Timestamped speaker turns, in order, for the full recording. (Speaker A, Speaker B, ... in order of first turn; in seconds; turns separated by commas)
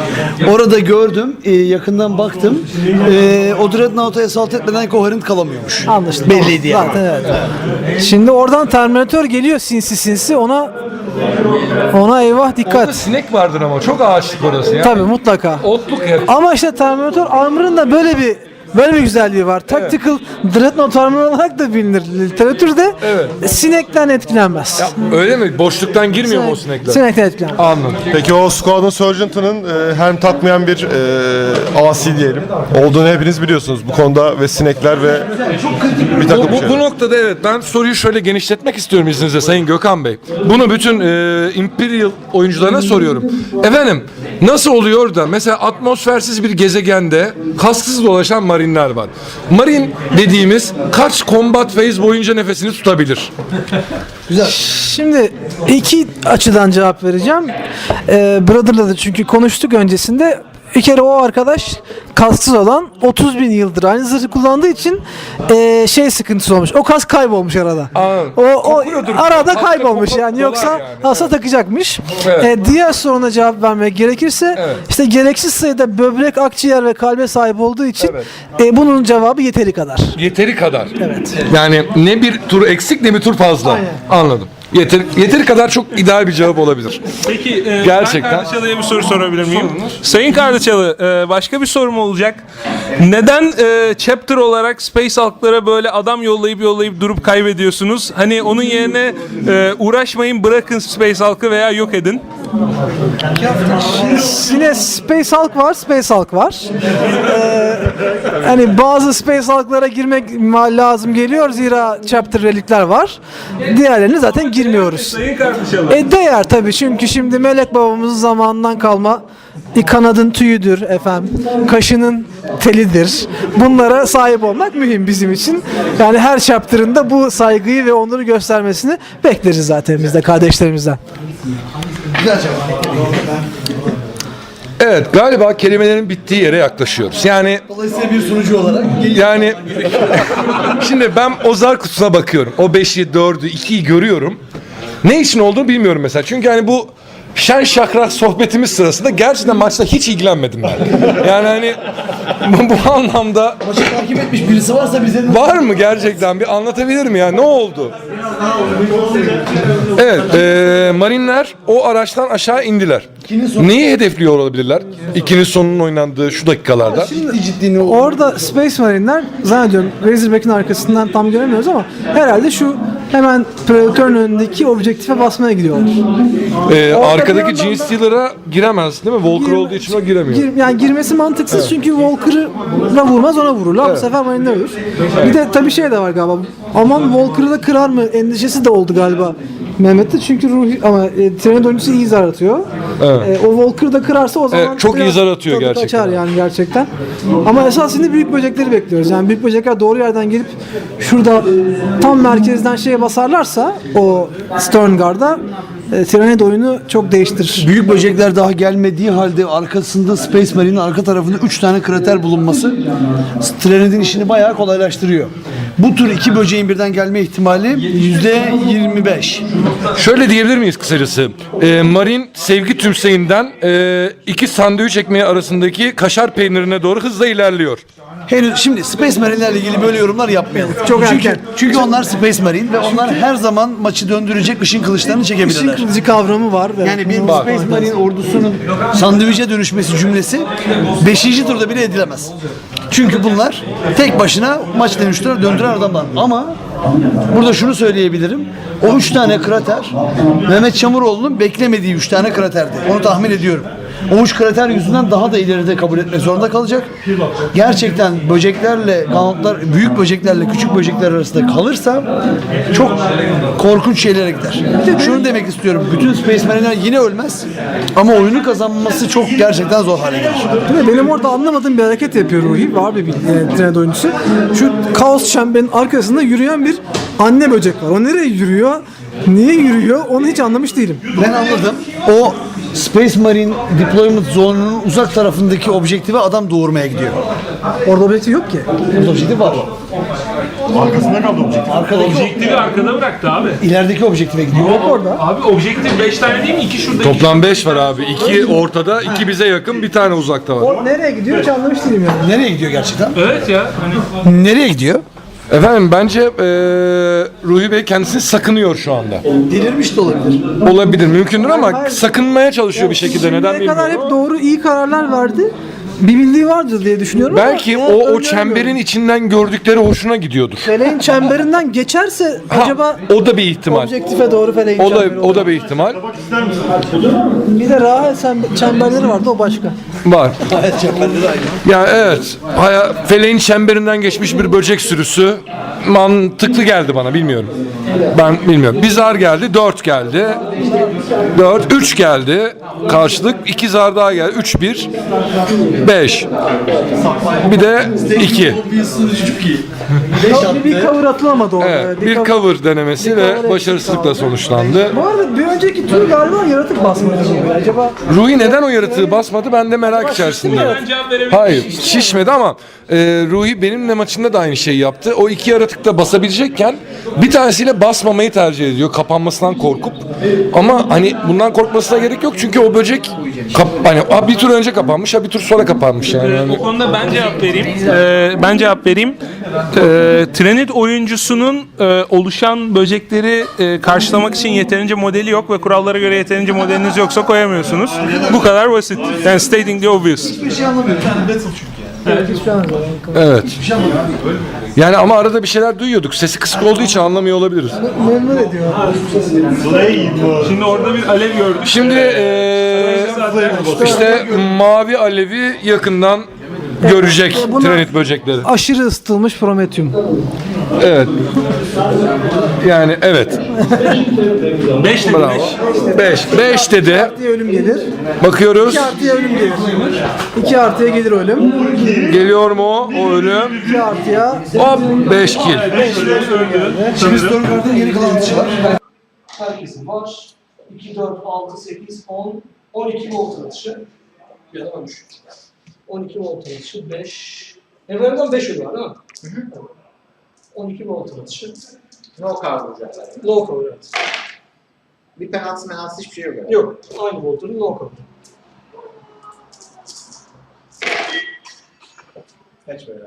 Speaker A: 0.4-7.0, Speaker B: 5.9-7.4, Speaker B: 8.0-10.7, Speaker B: 11.9-13.1, Speaker C: 12.6-15.0, Speaker B: 14.8-15.7, Speaker C: 15.6-16.3, Speaker B: 16.2-25.1, Speaker C: 19.7-19.9, Speaker C: 23.0-23.4, Speaker C: 24.8-27.0, Speaker B: 26.2-27.6, Speaker C: 27.6-28.1, Speaker D: 28.1-35.4, Speaker D: 36.0-36.8, Speaker C: 36.2-53.3, Speaker A: 54.3-54.5, Speaker B: 54.4-57.5, Speaker B: 58.1-80.2, Speaker C: 67.9-71.3, Speaker C: 72.2-72.5, Speaker C: 74.5-74.8, Speaker C: 78.0-78.2, Speaker C: 80.1-87.0, Speaker B: 81.0-81.4, Speaker B: 83.6-84.0, Speaker E: 87.2-92.4, Speaker C: 87.8-88.5, Speaker C: 89.4-90.0, Speaker E: 93.0-102.2, Speaker B: 103.4-115.2, Speaker E: 114.3-116.0, Speaker B: 115.9-119.2, Speaker B: 119.7-131.0, Speaker A: 132.2-133.4, Speaker C: 134.8-137.6, Speaker A: 137.7-140.2, Speaker C: 139.1-144.4, Speaker C: 145.0-153.8, Speaker A: 153.6-155.7, Speaker C: 155.3-157.9, Speaker C: 159.9-167.1, Speaker A: 163.2-163.7, Speaker A: 166.9-168.2, Speaker B: 167.0-176.0, Speaker C: 176.7-180.5, Speaker B: 176.9-177.9, Speaker B: 179.3-196.9, Speaker C: 183.8-184.1, Speaker C: 193.0-193.3, Speaker C: 194.5-196.2, Speaker B: 197.4-207.7, Speaker A: 207.6-212.8, Speaker A: 213.4-219.4, Speaker C: 219.9-227.8, Speaker A: 228.3-235.9, Speaker B: 230.8-231.8, Speaker B: 235.1-237.9, Speaker A: 236.8-242.3, Speaker A: 242.9-246.6, Speaker A: 247.3-256.9, Speaker A: 257.5-262.1, Speaker A: 262.7-270.6, Speaker B: 264.8-265.2, Speaker B: 270.7-281.0, Speaker A: 281.1-287.2, Speaker B: 287.9-288.7, Speaker A: 288.9-289.7, Speaker F: 290.7-291.7, Speaker A: 291.6-292.5, Speaker E: 291.9-293.6, Speaker A: 293.6-294.9, Speaker B: 294.6-295.2, Speaker E: 294.6-298.0, Speaker C: 297.0-300.8, Speaker B: 300.6-302.3, Speaker A: 302.2-303.2, Speaker E: 303.1-304.0, Speaker A: 304.2-305.0, Speaker C: 305.5-309.2, Speaker A: 309.3-310.5, Speaker C: 310.6-314.1, Speaker B: 311.4-312.1, Speaker B: 312.7-318.8, Speaker C: 317.3-320.7, Speaker B: 320.6-323.0, Speaker C: 322.5-323.9, Speaker B: 323.6-325.5, Speaker C: 324.8-326.0, Speaker F: 326.2-326.6, Speaker B: 327.4-329.7, Speaker C: 330.0-330.4, Speaker A: 330.4-331.6, Speaker C: 331.6-337.5, Speaker C: 338.1-340.4, Speaker C: 341.3-344.9, Speaker C: 345.8-346.3, Speaker C: 347.4-348.6, Speaker A: 347.9-350.9, Speaker B: 350.2-354.3, Speaker C: 351.6-354.9, Speaker B: 354.9-359.2, Speaker C: 358.1-376.6, Speaker B: 359.8-360.8, Speaker E: 360.2-361.8, Speaker B: 361.9-362.1, Speaker E: 376.1-379.2, Speaker E: 379.7-390.4, Speaker A: 390.3-391.6, Speaker E: 392.0-392.3, Speaker B: 392.0-393.4, Speaker C: 393.1-393.6, Speaker A: 393.5-394.1, Speaker C: 394.8-397.8, Speaker B: 397.7-399.6, Speaker F: 399.7-400.5, Speaker E: 400.4-403.9, Speaker C: 401.6-406.3, Speaker B: 403.5-404.1, Speaker C: 406.8-408.5, Speaker B: 406.8-410.0, Speaker C: 410.8-411.1, Speaker C: 412.6-413.4, Speaker E: 414.8-415.6, Speaker C: 415.0-417.1, Speaker B: 415.6-417.9, Speaker C: 418.2-418.9, Speaker B: 418.6-421.9, Speaker C: 421.9-423.6, Speaker B: 423.6-424.5, Speaker C: 424.5-425.9, Speaker E: 425.7-427.3, Speaker B: 425.7-426.9, Speaker A: 426.9-428.6, Speaker G: 429.3-433.9, Speaker G: 434.5-435.1, Speaker G: 435.9-439.0, Speaker G: 440.5-441.6, Speaker H: 442.2-443.1, Speaker G: 443.2-443.9, Speaker H: 445.1-446.7, Speaker G: 446.4-448.0